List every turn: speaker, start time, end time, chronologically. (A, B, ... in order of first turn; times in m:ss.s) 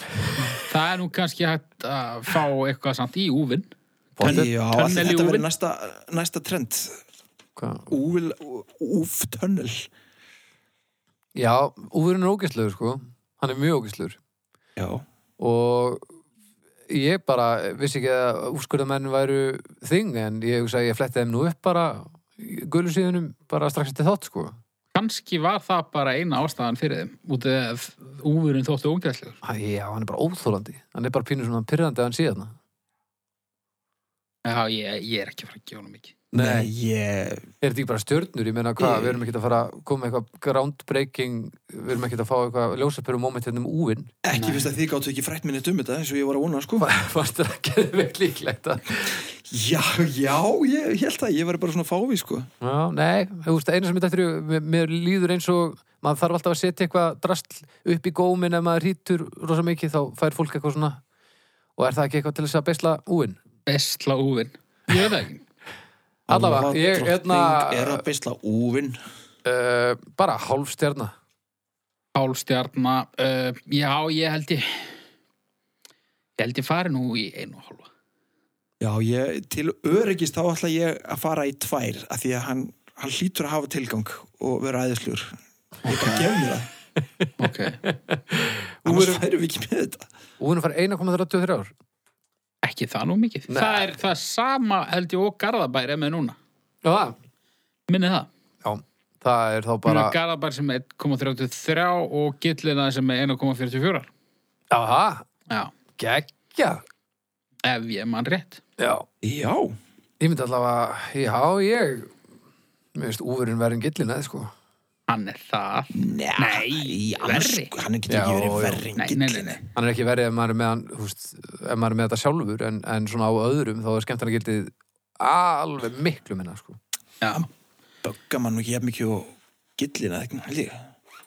0:00.5-0:03.7 A
0:04.2-0:04.5 B
0:04.2-0:05.5 A
0:04.2-0:07.0 C
0:07.6-0:07.9 B
0:07.9-0:09.9 C
0:11.4-0:14.2 B
0:14.8-0:15.0 C
0:15.4-0:16.0 B
0:16.9-0:24.6 B
0:24.9-0:29.4 A
0:29.4-0:32.5 B
0:34.4-0:36.2 A
0:36.3-0:36.7 B
0:36.3-0:37.5 C
0:37.6-0:44.1 B
0:38.8-0:39.2 C
0:44.2-0:46.9 C
0:44.3-0:44.7 A
0:46.8-0:49.2 B
0:49.4-0:52.5 C
0:52.6-1:01.0 B
1:01.8-1:03.4 B
1:03.6-1:05.4 A
1:06.3-1:09.0 C
1:06.3-1:08.0 B
1:09.4-1:11.1 B
1:12.1-1:14.9 A
1:16.4-1:17.9 A
1:18.8-1:26.7 C
1:25.8-1:26.3 A
1:27.4-1:27.8 A
1:27.8-1:29.2 B
1:28.8-1:30.0 C
1:30.4-1:31.7 B
1:32.6-1:36.4 A
1:33.5-1:33.9 B
1:36.8-1:37.2 B
1:37.9-1:38.3 A
1:38.6-1:40.2 B
1:39.8-1:44.1 A
1:44.7-1:45.3 B
1:46.0-1:46.8 B
1:47.6-1:48.6 A
1:48.8-1:49.0 B
1:49.2-1:49.8 C
1:50.2-1:52.1 B
1:52.9-1:54.5 B
1:55.1-1:57.7 A
1:55.9-1:59.6 C
1:58.1-1:58.8 B
1:59.0-1:59.6 A
1:59.7-2:06.8 B
2:07.2-2:07.5 A
2:08.0-2:10.8 C